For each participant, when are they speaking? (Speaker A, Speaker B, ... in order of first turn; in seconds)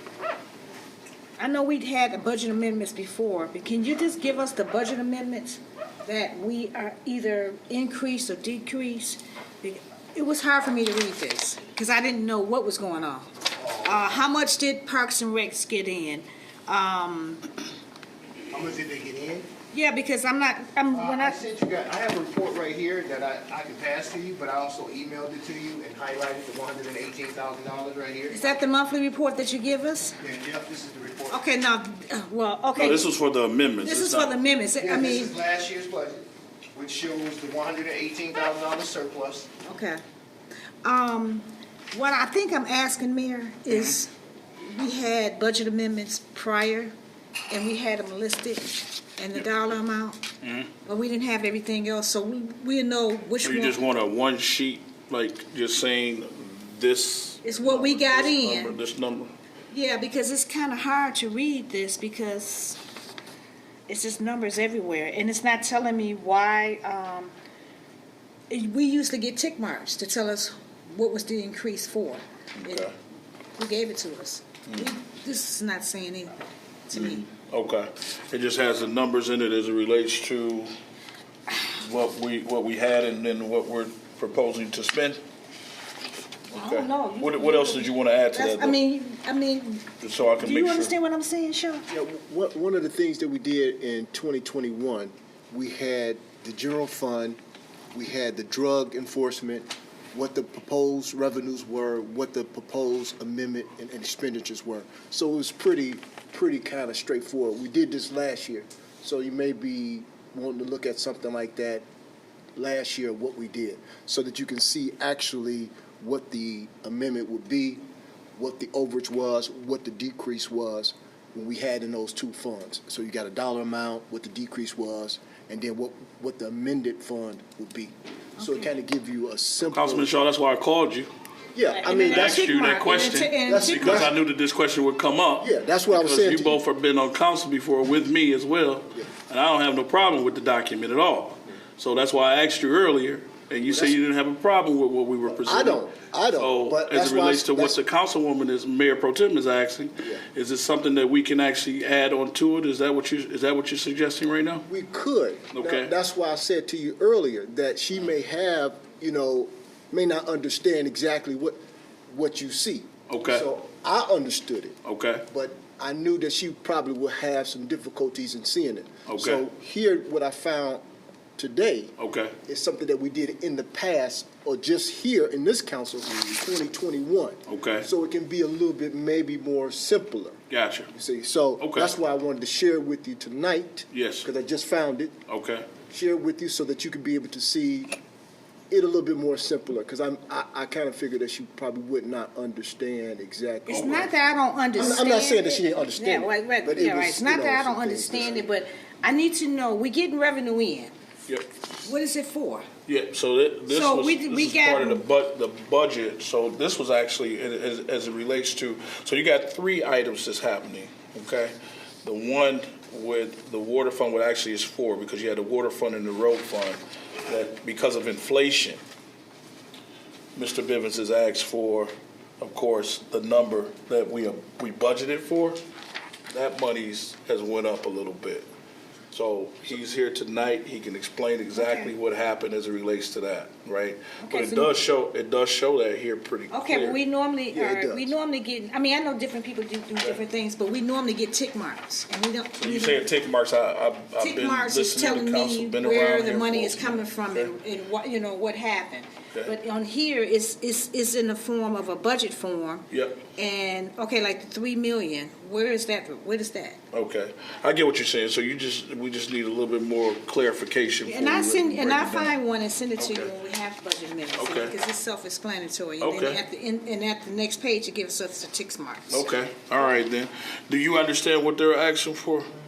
Speaker A: 1.4-17.5, 19.7-21.4, 28.3-30.2, 31.3-33.1, 33.8-35.4, 39.6-40.0, 40.8-46.9, 47.5-50.2, 50.9-53.8, 57.4-58.8, 59.7-62.8, 63.9-67.3, 68.5-72.9, 73.6-77.2, 86.5-91.8, 131.7-134.1, 193.7-200.9, 201.8-202.7, 203.7-205.0, 231.5-231.9, 234.2-234.7, 236.5-243.1, 244.2-256.8, 261.1-269.3
Speaker B: 13.6-14.2, 18.5-19.5, 20.9-28.5, 30.2-31.4, 34.8-39.5
Speaker C: 32.8-34.4, 43.7-44.0, 50.4-50.7, 53.4-59.3, 72.6-72.9, 76.9-80.7, 81.6-85.2, 86.5-88.8, 90.0-90.9, 129.7-131.1, 132.1-154.7, 155.5-155.9, 163.1-163.5, 164.8-165.2, 169.1-169.4, 172.0-172.3, 177.5-177.9, 180.5-180.9, 181.6-181.9, 183.9-184.3, 185.3-185.7, 193.7-194.1, 202.9-218.8, 220.4-225.6, 226.3-228.5, 229.1-237.0, 242.6-247.5, 252.9-253.2, 256.9-262.4, 263.0-263.3, 264.4-264.7, 266.0-266.4, 269.1-272.5
Speaker D: 91.9-97.4, 97.9-111.8, 112.6-117.8, 118.4-130.1, 131.6-132.5, 133.5-134.2, 135.4-136.6, 143.7-144.0, 145.3-147.8, 154.7-161.6, 162.1-170.8, 171.4-171.9, 172.5-180.4, 180.9-185.2, 185.9-187.9, 188.7-194.2, 194.7-198.4, 237.5-238.1